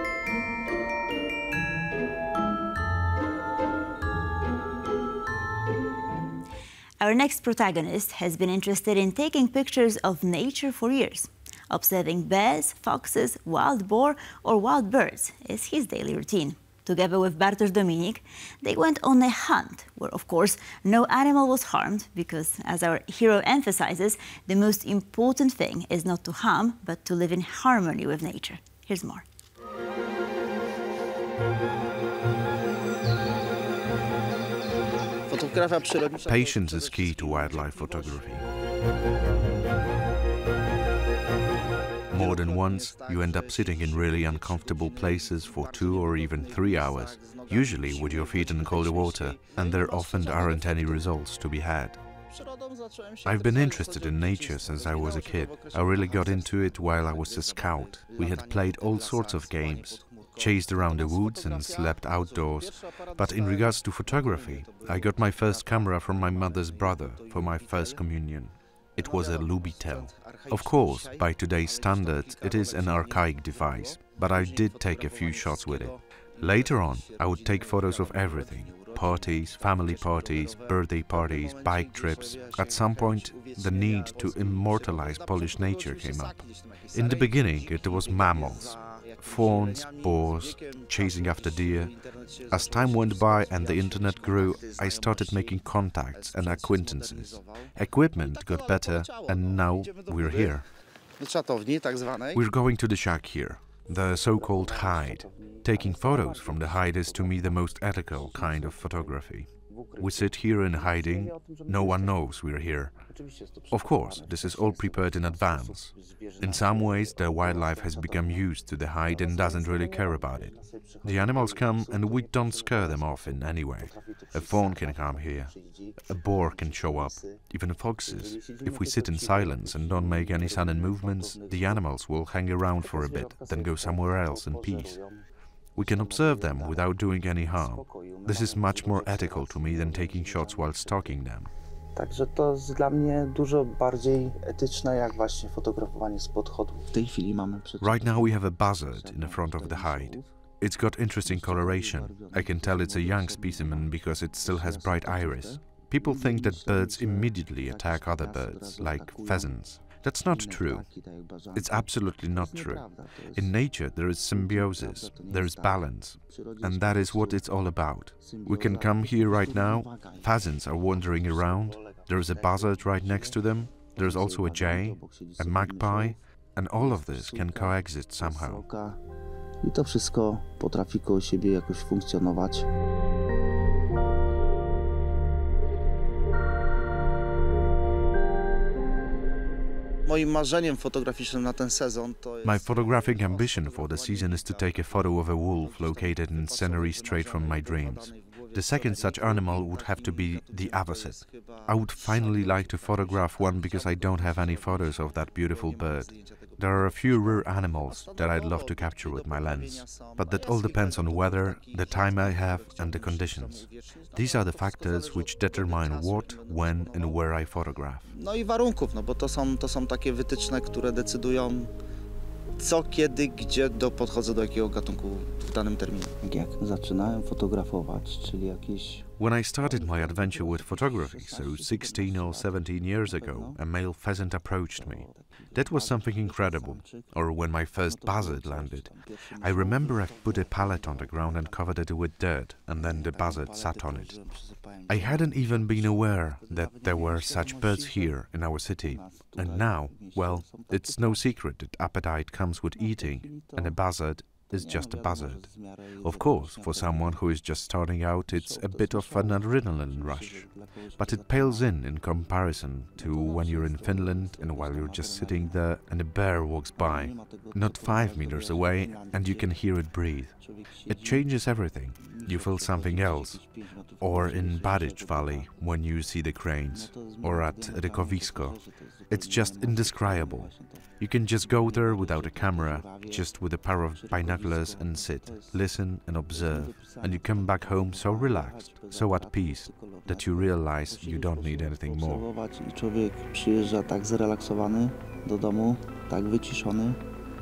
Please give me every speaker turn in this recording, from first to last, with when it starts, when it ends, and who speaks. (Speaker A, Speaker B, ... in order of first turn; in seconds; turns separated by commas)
Speaker A: 7.0-29.2, Speaker B: 35.3-36.2, Speaker C: 36.2-38.4, Speaker C: 42.1-52.0, Speaker C: 53.2-100.7, Speaker B: 101.2-101.9, Speaker C: 102.3-113.0, Speaker B: 104.4-106.8, Speaker B: 108.3-109.1, Speaker B: 109.7-112.1, Speaker B: 113.1-118.4, Speaker C: 113.7-135.0, Speaker B: 119.0-123.0, Speaker B: 123.9-125.9, Speaker B: 126.8-127.4, Speaker B: 128.2-131.8, Speaker B: 132.8-135.2, Speaker C: 135.8-141.5, Speaker B: 135.8-136.9, Speaker B: 137.5-141.1, Speaker B: 141.9-150.3, Speaker C: 147.8-160.9, Speaker B: 151.2-153.9, Speaker B: 154.4-159.5, Speaker B: 160.3-163.5, Speaker C: 161.5-178.7, Speaker B: 164.4-167.2, Speaker B: 168.2-176.2, Speaker B: 176.8-179.0, Speaker B: 179.6-182.7, Speaker B: 190.1-192.4, Speaker C: 192.4-218.1, Speaker B: 218.1-221.7, Speaker B: 222.6-229.0, Speaker C: 229.2-292.3, Speaker B: 229.6-233.6, Speaker B: 234.8-237.1, Speaker B: 238.2-241.4, Speaker B: 242.8-245.6, Speaker B: 248.9-250.8, Speaker B: 253.1-253.7, Speaker B: 254.8-257.1, Speaker B: 258.6-261.6, Speaker B: 263.0-265.4, Speaker B: 267.2-267.5, Speaker B: 286.7-289.0, Speaker B: 289.7-290.1, Speaker B: 290.9-297.0